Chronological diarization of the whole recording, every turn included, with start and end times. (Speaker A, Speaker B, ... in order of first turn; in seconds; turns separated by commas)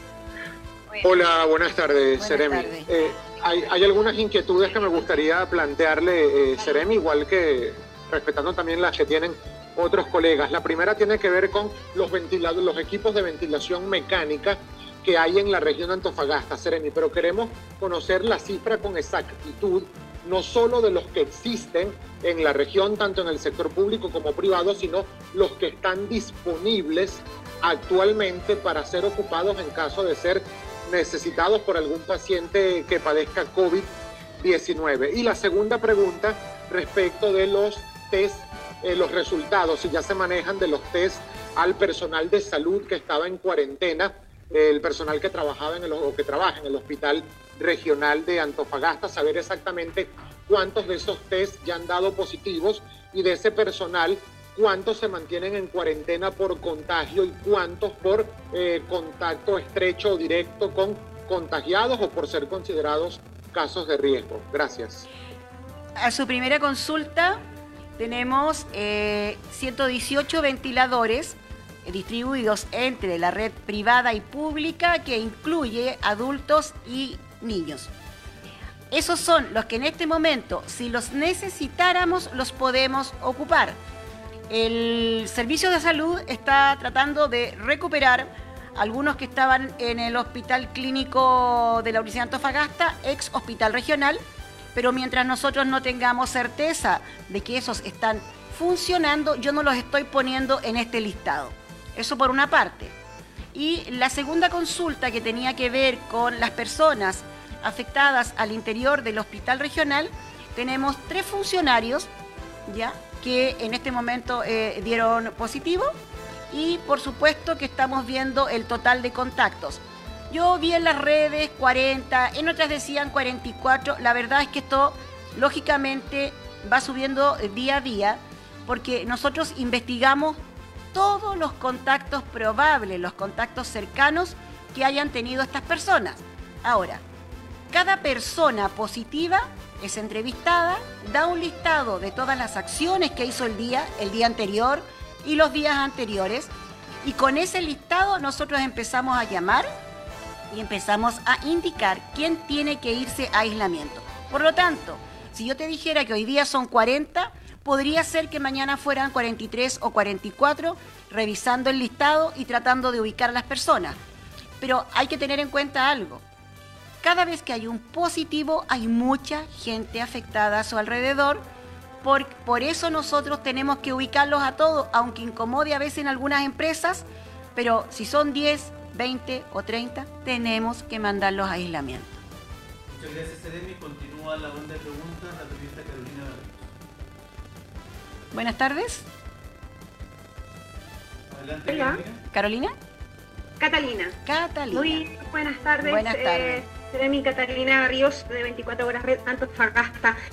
Speaker A: 1.0-33.9, Speaker B: 2.2-2.9, Speaker A: 34.4-65.1, Speaker B: 66.0-67.4, Speaker B: 68.0-77.9, Speaker B: 78.9-83.8, Speaker B: 84.5-94.2, Speaker B: 94.8-102.9, Speaker B: 103.5-112.1, Speaker B: 112.7-115.9, Speaker B: 116.5-130.4, Speaker B: 130.9-137.0, Speaker B: 137.7-146.5, Speaker B: 147.0-149.7, Speaker B: 150.5-164.0, Speaker B: 164.6-166.2, Speaker B: 167.0-171.4, Speaker B: 172.0-177.1, Speaker B: 177.6-182.2, Speaker C: 182.9-186.7, Speaker B: 188.3-189.1, Speaker C: 191.3-192.2, Speaker D: 191.7-192.0, Speaker B: 192.3-192.7, Speaker D: 193.6-194.2, Speaker B: 194.2-195.1, Speaker D: 194.7-200.2, Speaker B: 195.8-196.6